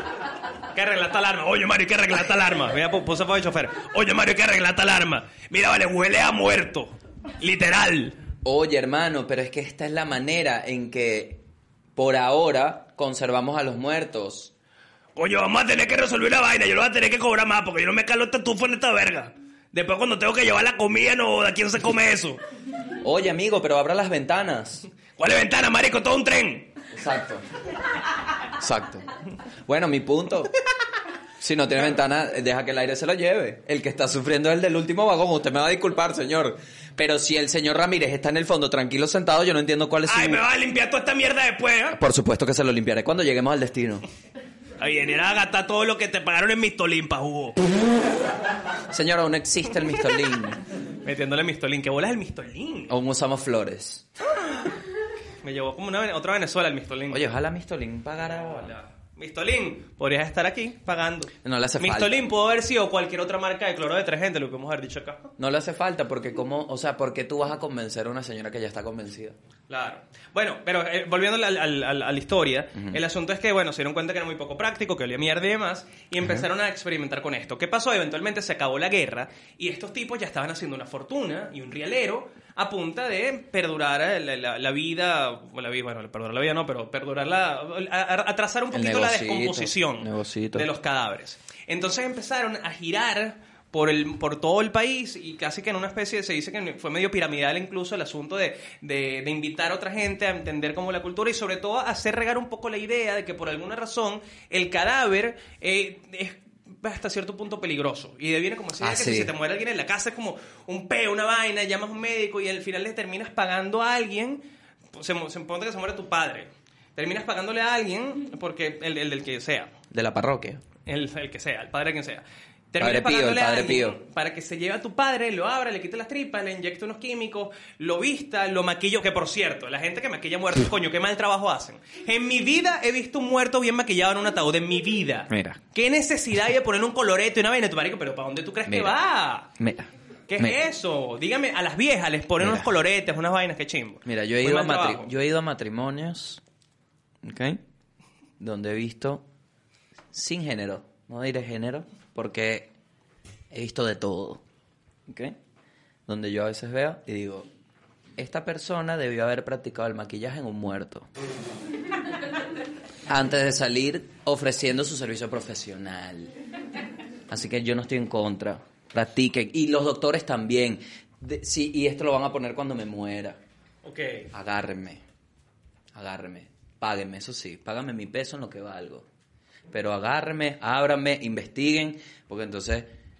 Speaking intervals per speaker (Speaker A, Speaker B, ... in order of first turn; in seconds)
Speaker A: 0.7-8.2, 15.1-22.4, 25.1-26.7, 40.0-42.0, 44.8-47.6, 51.0-52.9, 55.4-57.2, 58.2-65.3, 69.7-119.7, 120.8-139.5, 140.3-145.1, 173.8-174.3
Speaker B: 8.4-11.4, 11.9-14.5, 23.0-24.9, 26.9-27.6, 28.5-29.1, 29.6-30.6, 31.4-40.4, 41.9-44.0, 48.9-50.6, 52.9-54.6, 57.1-58.7, 61.4-62.3, 65.4-69.3, 72.7-73.0, 88.7-90.7, 108.8-109.3, 119.9-120.6, 122.8-124.0, 135.3-135.6, 138.7-138.9, 139.6-140.6, 142.4-142.7, 144.0-146.4, 147.2-147.6, 148.4-149.2, 150.1-152.7, 153.5-154.4, 155.1-155.3, 156.1-157.5, 158.2-161.1, 163.1-166.3, 167.3-173.4, 174.3-175.0, 175.9-179.1, 179.7-182.9